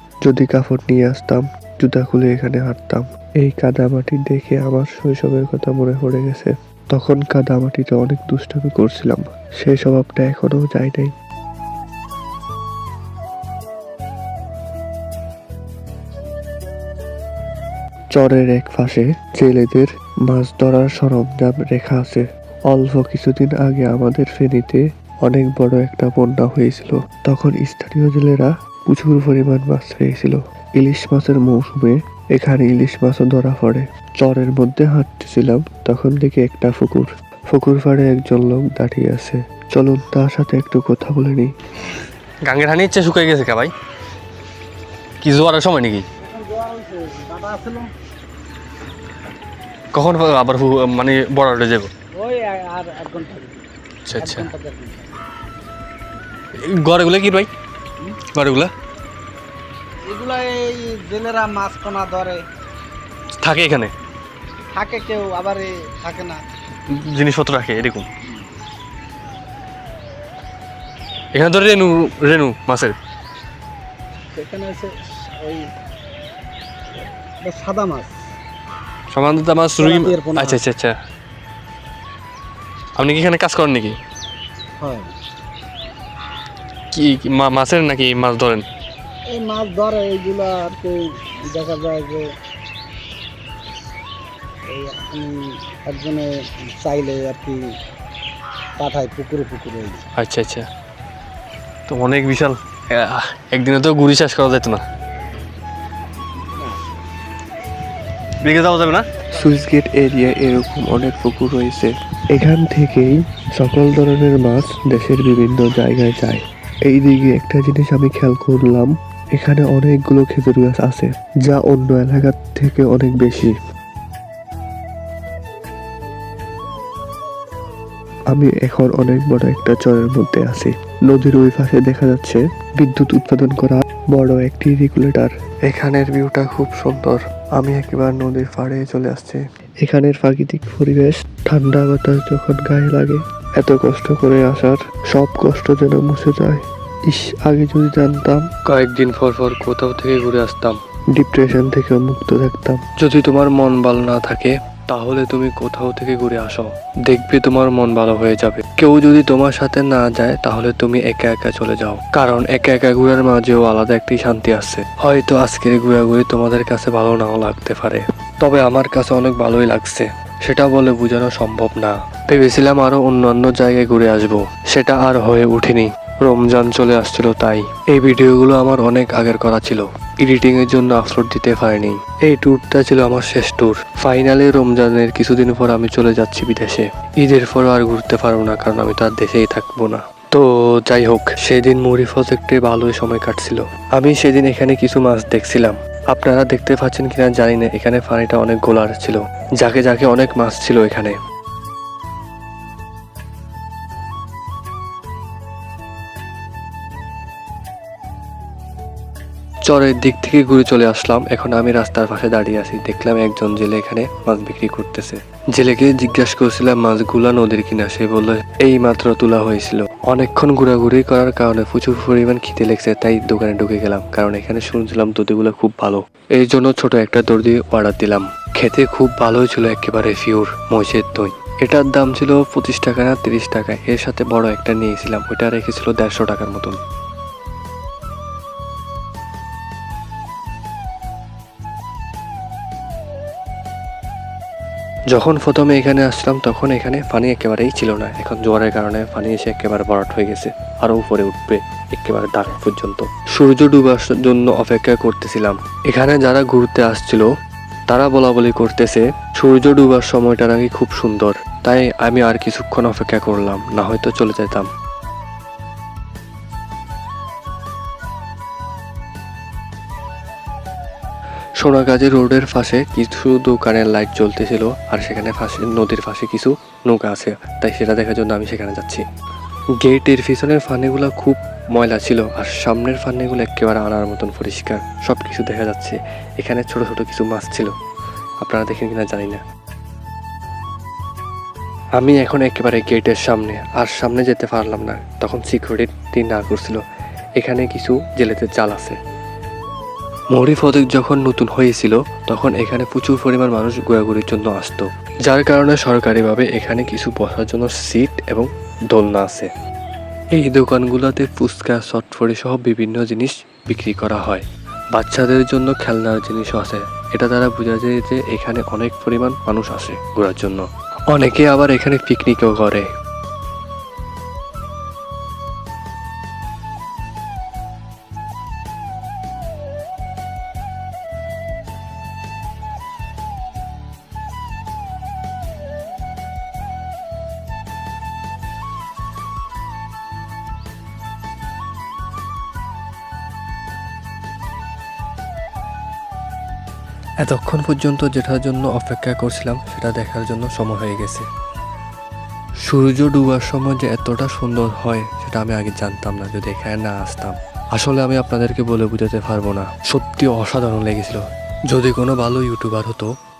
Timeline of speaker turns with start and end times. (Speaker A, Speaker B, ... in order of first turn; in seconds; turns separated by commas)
Speaker A: 0.2-11.1, Speaker A: 18.1-41.5, Speaker B: 42.5-43.7, Speaker B: 45.2-46.0, Speaker C: 46.2-47.9, Speaker B: 50.0-51.9, Speaker C: 52.2-53.6, Speaker B: 54.1-54.5, Speaker C: 54.2-55.1, Speaker B: 56.7-57.5, Speaker B: 58.2-58.7, Speaker C: 60.1-62.4, Speaker B: 63.4-63.9, Speaker C: 64.8-66.4, Speaker B: 67.0-68.0, Speaker B: 71.3-72.9, Speaker C: 74.4-75.6, Speaker C: 77.5-78.1, Speaker B: 79.1-80.9, Speaker C: 79.8-80.6, Speaker B: 83.0-84.0, Speaker C: 84.8-85.1, Speaker B: 87.0-88.6, Speaker C: 89.3-92.2, Speaker C: 94.7-97.6, Speaker C: 98.8-100.0, Speaker B: 100.2-100.7, Speaker B: 101.9-104.8, Speaker B: 108.4-109.1, Speaker A: 109.3-123.5, Speaker A: 128.3-201.2, Speaker A: 209.7-236.8, Speaker A: 245.1-257.3, Speaker A: 257.9-264.7, Speaker A: 271.6-279.0, Speaker A: 279.8-287.7, Speaker A: 288.4-289.4, Speaker A: 292.0-296.8, Speaker A: 297.4-298.9, Speaker A: 300.3-309.5, Speaker A: 310.4-322.9, Speaker A: 347.2-351.2, Speaker A: 352.6-363.1